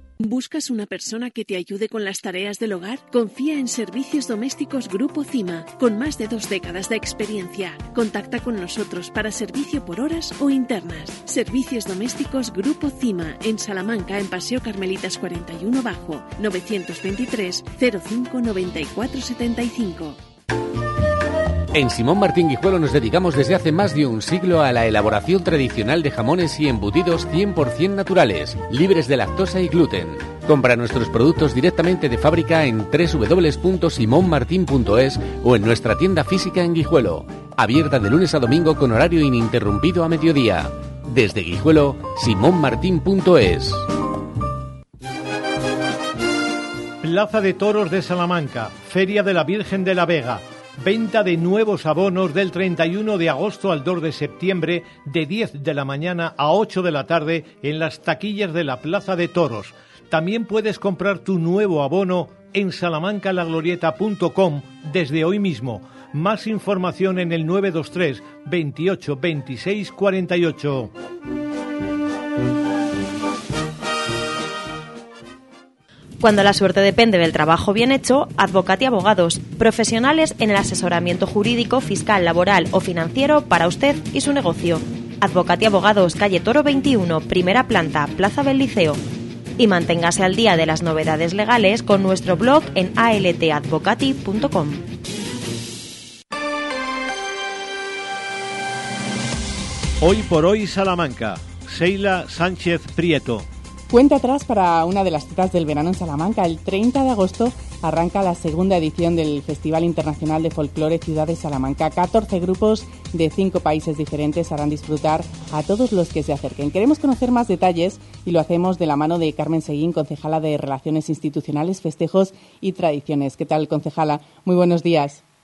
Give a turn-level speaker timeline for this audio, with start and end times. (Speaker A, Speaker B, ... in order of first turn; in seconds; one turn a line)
Speaker A: 0.2-20.2
Speaker B: 21.7-43.9
Speaker C: 47.0-70.9
Speaker D: 76.2-89.0
Speaker D: 89.6-94.8
Speaker C: 100.0-103.5
Speaker E: 103.9-125.2